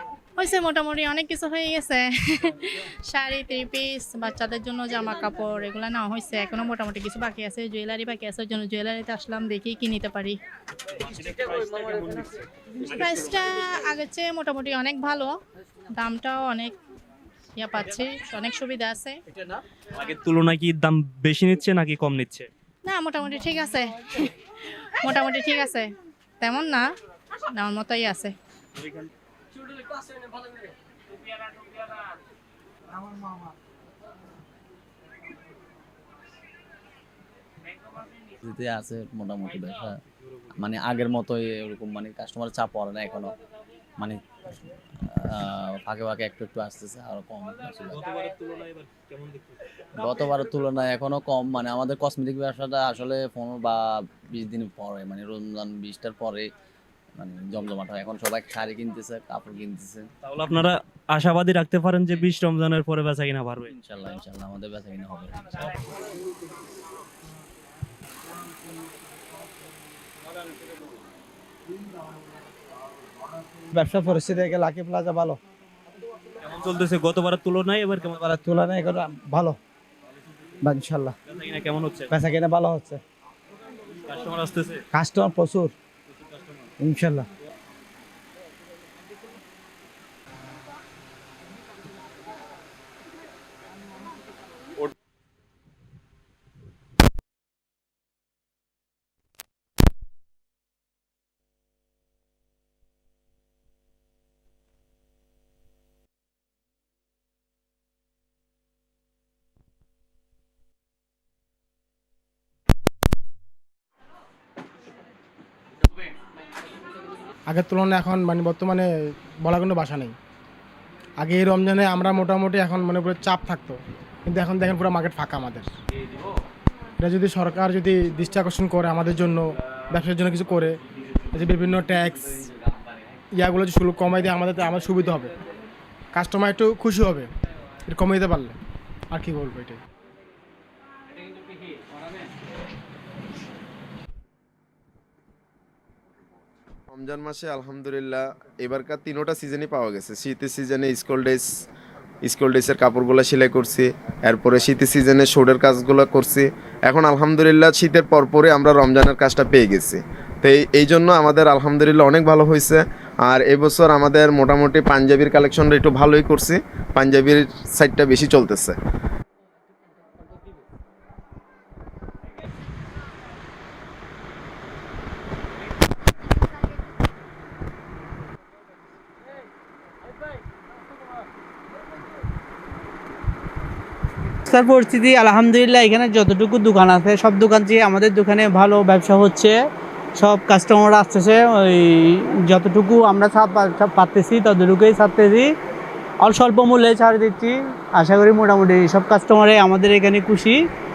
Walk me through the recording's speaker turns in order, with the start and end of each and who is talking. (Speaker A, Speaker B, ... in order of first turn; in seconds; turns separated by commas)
Speaker A: 0.4-10.4, Speaker B: 11.1-12.4, Speaker A: 12.9-15.3, Speaker A: 15.9-16.8, Speaker A: 17.6-19.2, Speaker B: 20.0-22.5, Speaker A: 22.9-24.3, Speaker A: 25.0-25.9, Speaker A: 26.4-26.9, Speaker A: 27.5-28.3, Speaker C: 38.4-40.0, Speaker C: 40.5-43.4, Speaker C: 45.1-48.0, Speaker B: 47.9-49.6, Speaker C: 50.0-56.5, Speaker C: 57.2-60.1, Speaker B: 60.2-63.7, Speaker C: 63.7-65.8, Speaker D: 73.7-75.4, Speaker B: 76.4-78.2, Speaker D: 78.1-79.6, Speaker D: 80.6-81.2, Speaker B: 81.3-82.1, Speaker D: 82.1-83.0, Speaker B: 84.1-84.8, Speaker D: 84.9-85.7, Speaker B: 86.3-86.5, Speaker D: 86.8-87.3, Speaker E: 117.5-118.9, Speaker E: 119.4-120.2, Speaker E: 121.2-125.7, Speaker E: 127.0-130.8, Speaker E: 131.3-132.4, Speaker E: 133.3-135.3, Speaker E: 136.1-137.3, Speaker E: 137.9-138.6, Speaker E: 139.1-139.8, Speaker F: 146.9-151.7, Speaker F: 152.2-168.8, Speaker G: 184.5-189.5, Speaker G: 190.2-191.9, Speaker G: 192.5-195.5, Speaker G: 196.2-200.6